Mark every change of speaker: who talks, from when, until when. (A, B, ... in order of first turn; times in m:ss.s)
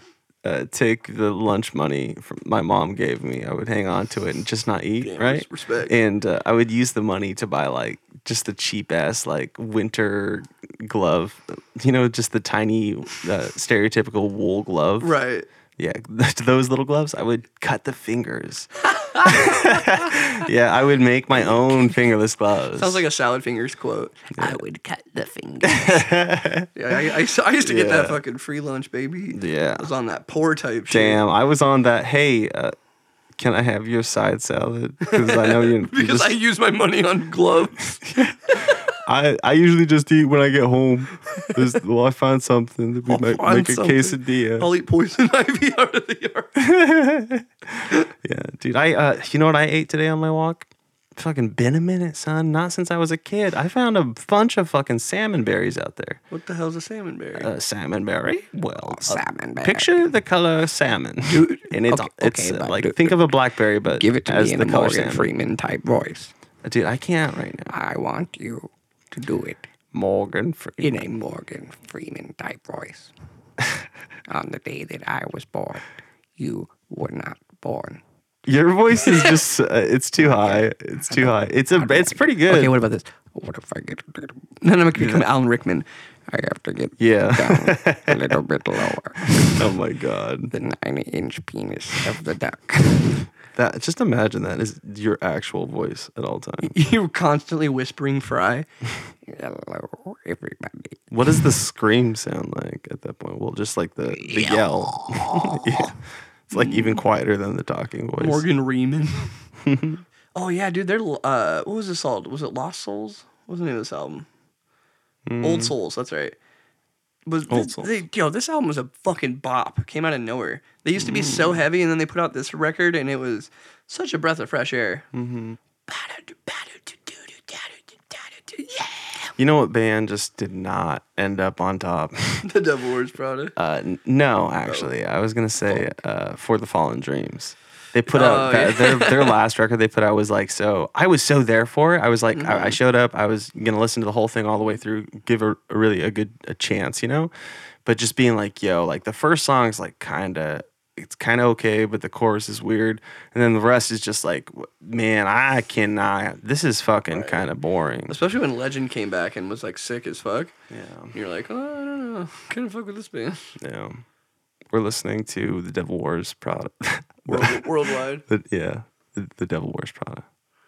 0:00.4-0:15.1 A
0:05.0-0:05.9 B
0:15.0-0:15.5 B
0:15.8-0:23.0 A
0:18.9-0:20.3 B
0:21.4-0:21.6 B
0:22.8-0:24.7 B
0:24.4-0:24.6 A
0:24.6-0:25.8 C
0:25.6-0:27.1 A
0:26.8-0:31.2 B
0:27.6-0:28.2 A
0:29.3-0:29.9 A
0:30.9-0:32.8 A
0:33.4-0:36.4 A
0:35.0-0:38.9 B
0:38.0-0:44.7 A
0:43.1-0:46.5 B
0:46.6-0:56.2 A
0:56.3-0:57.5 B
0:57.4-1:05.3 A
0:58.9-1:00.0 C
1:01.3-1:01.7 B
1:01.9-1:03.2 C
1:03.9-1:06.3 C
1:06.6-1:07.7 A
1:07.7-1:09.6 C
1:09.9-1:11.0 A
1:10.8-1:13.1 C
1:14.3-1:15.8 C
1:16.4-1:18.0 C
1:18.5-1:22.7 A
1:19.1-1:19.4 C
1:20.2-1:24.5 C
1:22.5-1:23.0 B
1:24.6-1:25.9 B
1:25.0-1:25.2 A
1:26.3-1:29.7 C
1:27.0-1:30.5 A
1:30.5-1:33.3 C
1:33.6-1:36.8 A
1:36.6-1:38.7 B
1:39.3-1:41.0 C
1:41.1-1:46.0 A
1:44.2-1:45.9 C
1:46.5-1:48.4 A
1:48.2-1:49.3 B
1:49.6-1:50.0 A
1:50.4-1:54.3 B
1:55.3-1:55.7 A
1:55.4-1:56.4 B
1:57.3-2:05.0 B
1:57.5-1:58.0 A
2:01.0-2:01.6 A
2:05.1-2:05.6 A
2:05.9-2:09.3 B
2:09.4-2:12.5 A
2:12.4-2:13.5 B
2:13.6-2:27.3 A
2:14.6-2:14.9 B
2:18.1-2:19.4 B
2:22.3-2:22.8 B
2:27.8-2:38.2 A
2:37.1-2:37.5 B
2:38.1-2:40.5 B
2:40.7-2:41.1 A
2:41.1-2:43.6 B
2:43.6-2:44.0 A
2:44.7-2:47.7 A
2:47.3-2:48.2 B
2:48.2-2:50.2 A